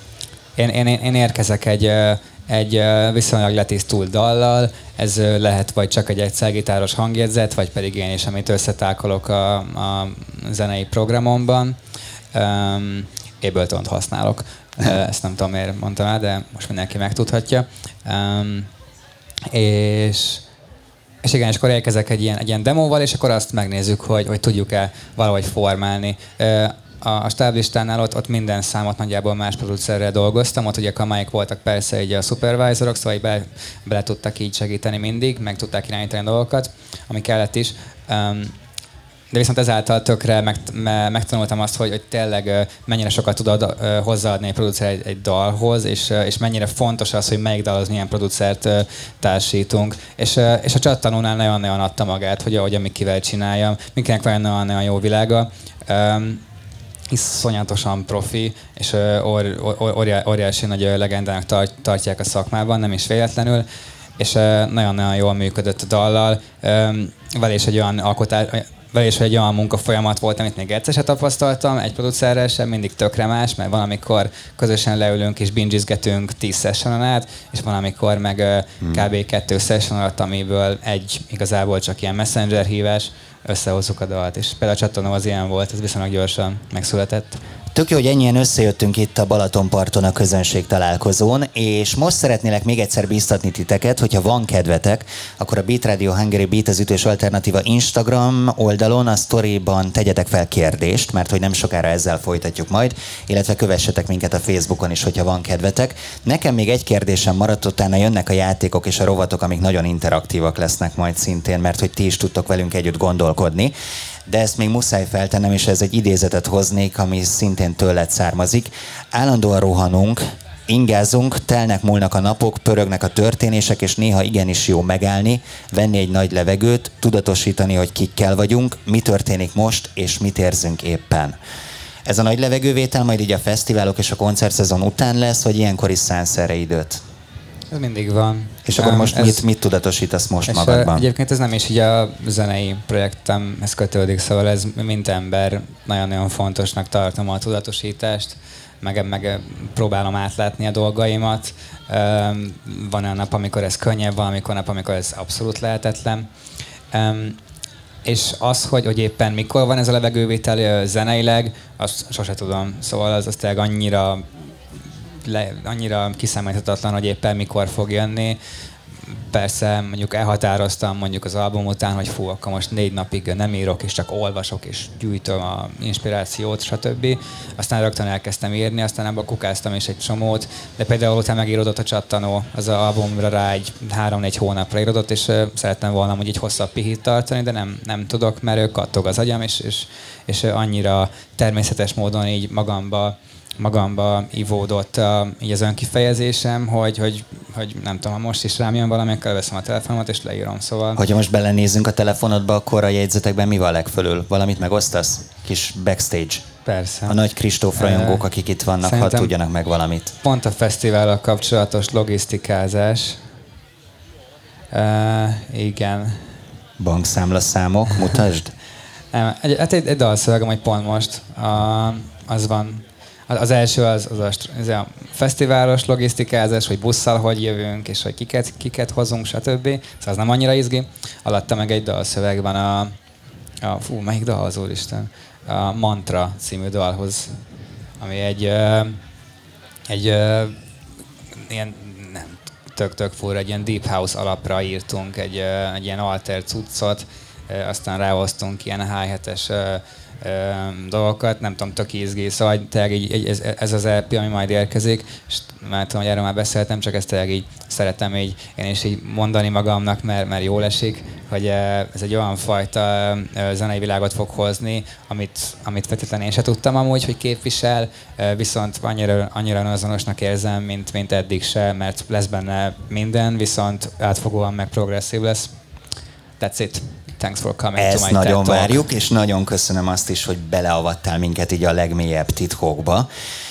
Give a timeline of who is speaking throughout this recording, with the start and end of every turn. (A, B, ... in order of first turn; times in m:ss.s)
0:00.6-0:11.8 A
0:12.3-0:18.7 A
0:19.5-0:20.4 A
0:21.2-0:38.6 A
0:39.3-0:56.4 A
0:57.1-1:03.7 A
1:04.2-1:27.4 A
1:18.8-1:19.1 B
1:27.7-1:53.7 B
1:54.3-2:11.4 B
2:12.1-2:17.0 B
2:17.7-2:19.4 A
2:18.7-2:21.0 B
2:20.5-2:36.3 A
2:36.9-2:37.4 A
2:38.0-2:44.3 A
2:45.2-2:48.4 A
2:49.1-3:21.0 A
3:21.0-3:26.4 B
3:26.7-3:27.2 A
3:27.1-3:30.1 B
3:27.7-3:28.2 A
3:28.8-3:29.3 A
3:30.2-3:33.2 A
3:34.7-3:36.2 A
3:36.8-3:38.5 B
3:39.1-3:53.0 A
3:53.6-3:57.4 A
3:58.0-3:59.0 A
3:59.9-4:00.6 A
4:01.4-4:35.5 A
4:36.4-4:38.9 A
4:37.8-4:43.1 B